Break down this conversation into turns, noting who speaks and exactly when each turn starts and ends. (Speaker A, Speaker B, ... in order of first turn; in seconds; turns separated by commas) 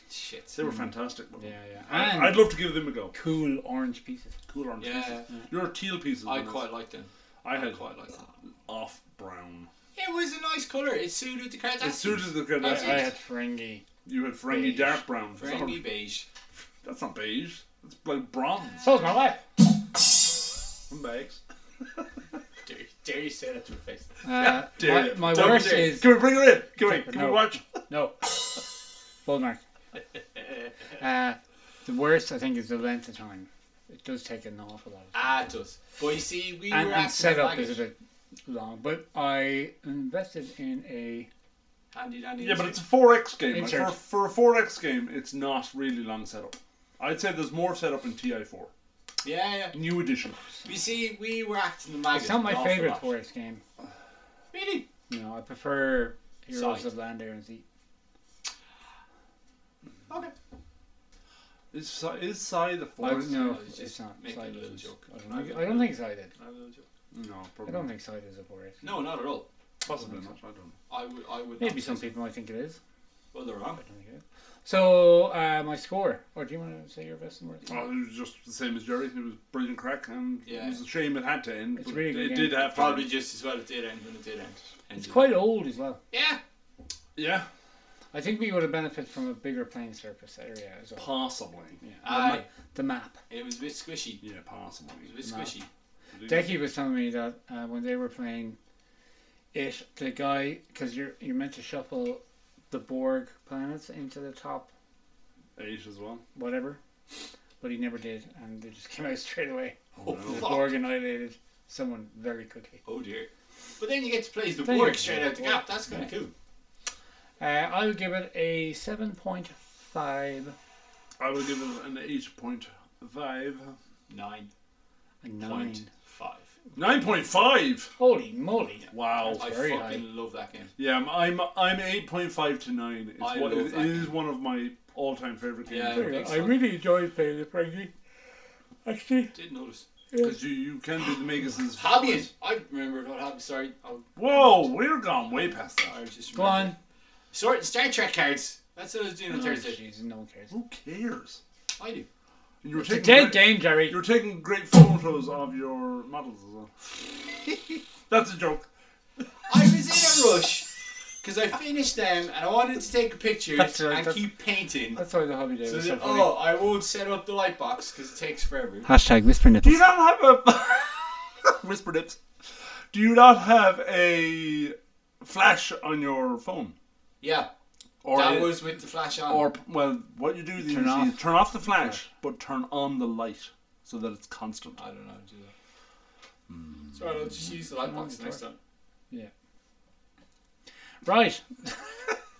Speaker A: 0.1-0.6, Speaker B: 0.5-3.1, Speaker C: 0.6-2.5, Speaker C: 3.1-4.3, Speaker B: 4.5-6.7, Speaker A: 4.8-5.3, Speaker A: 6.2-8.3, Speaker B: 7.4-7.9, Speaker B: 8.7-9.7, Speaker A: 9.9-13.1, Speaker B: 11.8-13.1, Speaker C: 12.6-13.8, Speaker B: 14.0-15.8, Speaker C: 14.5-15.0, Speaker A: 15.4-16.3, Speaker B: 16.8-18.8, Speaker C: 18.8-19.4, Speaker B: 20.9-21.4, Speaker A: 22.6-24.1, Speaker C: 24.2-26.1, Speaker B: 24.4-27.8, Speaker A: 25.2-26.0, Speaker C: 26.8-28.3, Speaker C: 29.2-29.6, Speaker C: 31.0-35.3, Speaker A: 35.1-37.8, Speaker C: 36.7-37.9, Speaker C: 38.5-41.3, Speaker A: 41.9-42.8, Speaker B: 42.4-48.7, Speaker C: 43.5-44.0, Speaker A: 49.2-49.8, Speaker B: 49.7-50.4, Speaker A: 50.6-53.1, Speaker C: 52.1-53.6, Speaker A: 54.5-54.9, Speaker C: 55.1-57.6, Speaker A: 56.5-56.9, Speaker B: 61.7-63.5, Speaker C: 63.0-66.3, Speaker A: 63.0-66.9, Speaker B: 67.1-67.9, Speaker C: 67.7-68.9, Speaker A: 68.8-69.5, Speaker B: 69.8-70.7, Speaker C: 69.9-70.3, Speaker A: 70.9-72.1, Speaker C: 71.6-72.8, Speaker A: 73.3-73.8, Speaker C: 73.8-77.8, Speaker B: 77.7-83.1, Speaker A: 80.5-80.8, Speaker C: 81.8-82.6, Speaker A: 82.6-85.4, Speaker C: 85.0-86.0, Speaker A: 86.1-86.4, Speaker B: 87.2-87.5, Speaker C: 88.1-91.1, Speaker B: 91.0-91.8, Speaker C: 91.8-93.2, Speaker A: 92.0-92.5, Speaker A: 93.3-94.2, Speaker B: 94.2-95.1, Speaker A: 95.0-95.7, Speaker C: 95.2-95.5, Speaker B: 96.1-96.5, Speaker C: 96.3-98.6, Speaker C: 99.5-104.7, Speaker B: 105.6-106.2, Speaker C: 106.3-106.8, Speaker C: 107.6-112.8, Speaker B: 109.9-110.5, Speaker A: 110.0-110.8, Speaker A: 112.8-116.3, Speaker C: 114.6-116.1, Speaker C: 117.4-120.5, Speaker B: 121.2-123.7, Speaker A: 124.1-124.5, Speaker C: 125.2-125.8, Speaker A: 125.4-126.5, Speaker B: 126.8-127.9, Speaker C: 128.0-130.1, Speaker B: 128.9-129.4, Speaker A: 129.3-130.7, Speaker B: 130.8-136.3, Speaker A: 133.2-134.2, Speaker A: 135.7-136.6, Speaker C: 135.9-137.9, Speaker C: 138.8-139.3, Speaker A: 139.3-139.8, Speaker B: 140.2-142.3, Speaker A: 141.7-144.7, Speaker B: 144.2-146.0, Speaker A: 145.8-146.8, Speaker C: 146.3-146.7, Speaker A: 147.3-149.8, Speaker C: 149.3-150.5, Speaker B: 150.5-151.4, Speaker A: 151.8-152.1, Speaker B: 152.6-156.7, Speaker C: 152.7-154.0, Speaker B: 158.1-158.7, Speaker A: 159.5-160.7, Speaker A: 161.2-165.0, Speaker C: 163.6-164.2, Speaker C: 164.9-166.4, Speaker A: 165.6-168.9, Speaker C: 168.8-169.9, Speaker B: 169.6-172.2, Speaker B: 172.9-176.7, Speaker A: 177.2-177.5, Speaker B: 178.0-178.7, Speaker A: 178.1-179.5, Speaker B: 179.3-184.8, Speaker C: 180.6-182.0, Speaker A: 184.8-185.5, Speaker B: 186.5-187.0, Speaker A: 186.9-188.6, Speaker C: 187.8-188.4, Speaker C: 191.0-191.8